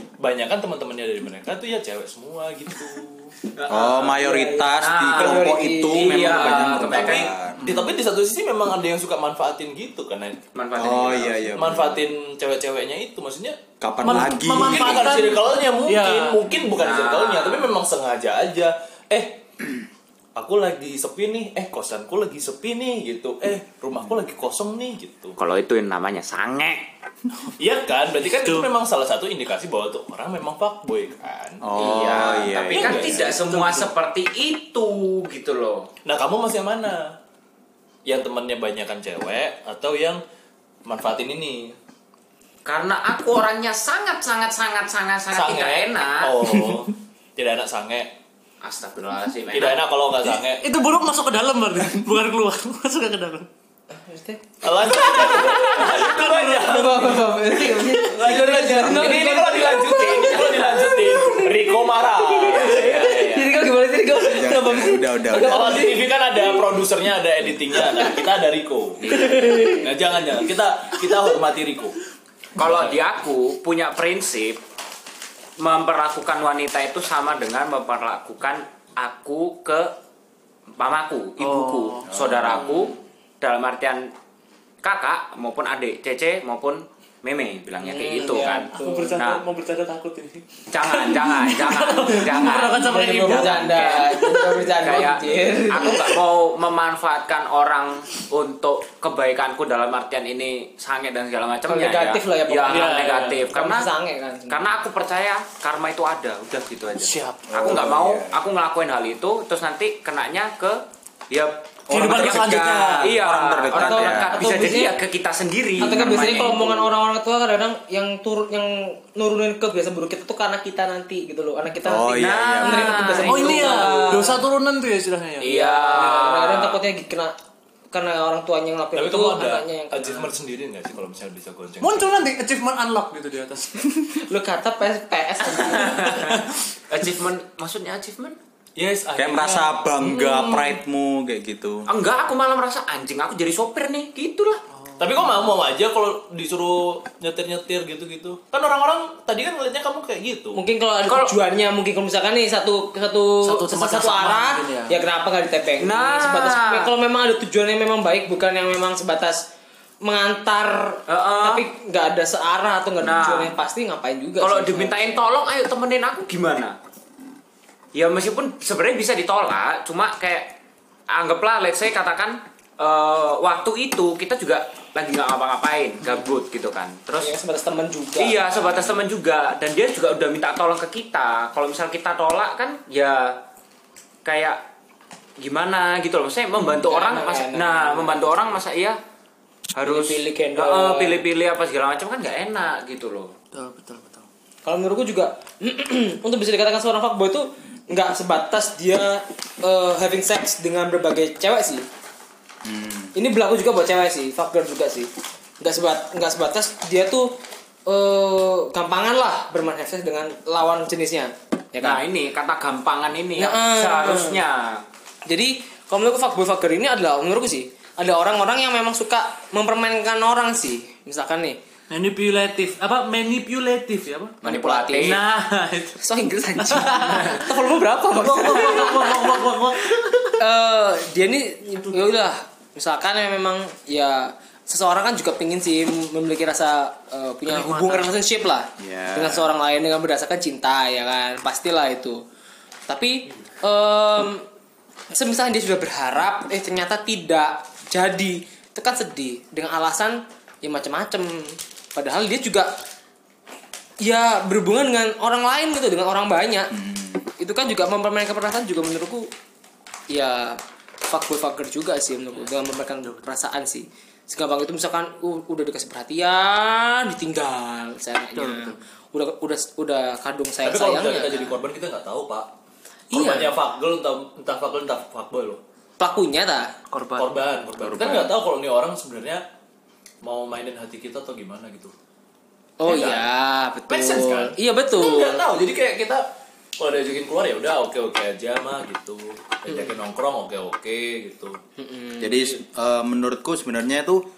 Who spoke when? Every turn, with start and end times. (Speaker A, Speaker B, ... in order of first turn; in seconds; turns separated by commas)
Speaker A: 0.2-3.4, Speaker B: 3.5-4.2, Speaker C: 3.7-7.8, Speaker D: 4.0-6.8, Speaker B: 4.8-7.3, Speaker A: 6.8-10.4, Speaker B: 10.6-11.6, Speaker C: 10.8-12.1, Speaker A: 11.5-19.6, Speaker C: 13.8-15.3, Speaker E: 14.0-16.4, Speaker B: 16.8-17.8, Speaker A: 20.4-25.4, Speaker B: 25.4-26.9, Speaker A: 27.4-31.7, Speaker E: 28.4-28.7, Speaker C: 31.6-33.1, Speaker B: 31.8-35.9, Speaker A: 32.2-33.5, Speaker E: 33.0-33.9, Speaker A: 36.0-37.2, Speaker A: 38.0-40.2, Speaker A: 40.9-41.8, Speaker B: 42.6-46.4, Speaker A: 45.3-48.1, Speaker B: 48.6-49.9, Speaker A: 49.5-50.6, Speaker E: 50.6-53.5, Speaker D: 54.0-66.6, Speaker A: 54.6-57.3, Speaker A: 57.9-63.2, Speaker B: 62.4-63.6, Speaker C: 64.2-65.8, Speaker A: 65.4-72.0, Speaker B: 69.0-69.9, Speaker D: 69.1-69.9, Speaker B: 72.5-74.6, Speaker B: 75.6-79.9, Speaker B: 80.8-84.1, Speaker E: 81.4-82.9, Speaker C: 82.1-82.6, Speaker B: 84.8-89.4, Speaker D: 87.8-89.2, Speaker E: 88.7-94.6, Speaker B: 90.7-94.1, Speaker D: 92.8-96.1, Speaker B: 94.7-103.9, Speaker D: 101.7-104.6, Speaker E: 102.7-103.5, Speaker B: 104.5-116.9, Speaker E: 107.0-107.7, Speaker C: 107.5-108.4, Speaker E: 111.9-113.1, Speaker C: 111.9-114.4, Speaker D: 112.2-113.0, Speaker D: 113.7-115.0, Speaker C: 115.8-116.6, Speaker D: 115.8-124.4, Speaker C: 121.8-123.0, Speaker B: 122.2-124.3, Speaker E: 123.2-126.5, Speaker B: 125.4-126.8, Speaker D: 125.4-127.3, Speaker D: 127.9-130.3, Speaker A: 128.9-132.2, Speaker E: 131.8-134.2, Speaker D: 134.2-136.3, Speaker B: 135.5-138.4, Speaker A: 138.8-140.7, Speaker C: 139.2-141.9, Speaker B: 141.9-144.6, Speaker E: 144.7-145.3, Speaker A: 145.0-150.6, Speaker D: 150.5-159.5, Speaker B: 151.1-151.3, Speaker E: 153.4-155.0, Speaker B: 155.8-156.9, Speaker D: 160.0-165.3, Speaker B: 161.1-161.7, Speaker B: 163.0-163.6, Speaker B: 164.4-166.8, Speaker B: 167.9-170.6, Speaker B: 171.1-177.3, Speaker D: 177.2-178.7, Speaker B: 178.2-183.4, Speaker B: 184.2-184.6, Speaker B: 185.4-189.0, Speaker D: 186.6-188.3, Speaker B: 189.8-193.3, Speaker D: 189.8-191.2, Speaker E: 193.5-194.3, Speaker D: 194.7-201.9, Speaker C: 202.7-203.1, Speaker D: 203.2-212.0, Speaker B: 211.8-214.8, Speaker D: 213.4-214.4, Speaker D: 215.3-221.6, Speaker E: 221.9-224.4, Speaker B: 224.4-225.2, Speaker D: 224.4-225.2, Speaker E: 225.0-226.0, Speaker D: 226.0-242.2, Speaker E: 226.6-227.6, Speaker E: 228.1-230.4, Speaker E: 237.5-238.1, Speaker C: 238.8-239.5, Speaker D: 242.9-244.4, Speaker D: 245.1-252.8, Speaker D: 254.0-256.7, Speaker C: 256.7-257.3, Speaker D: 257.4-259.3, Speaker D: 260.1-271.6, Speaker E: 268.4-268.8, Speaker A: 270.6-272.5, Speaker D: 273.1-273.6, Speaker A: 273.1-275.6, Speaker D: 276.0-276.8, Speaker E: 276.9-277.3, Speaker A: 277.2-279.4, Speaker C: 277.8-278.4, Speaker A: 280.2-281.9, Speaker D: 282.8-285.4, Speaker A: 282.9-283.3, Speaker A: 283.9-286.3, Speaker A: 286.8-291.6, Speaker D: 291.8-292.5, Speaker C: 292.2-294.2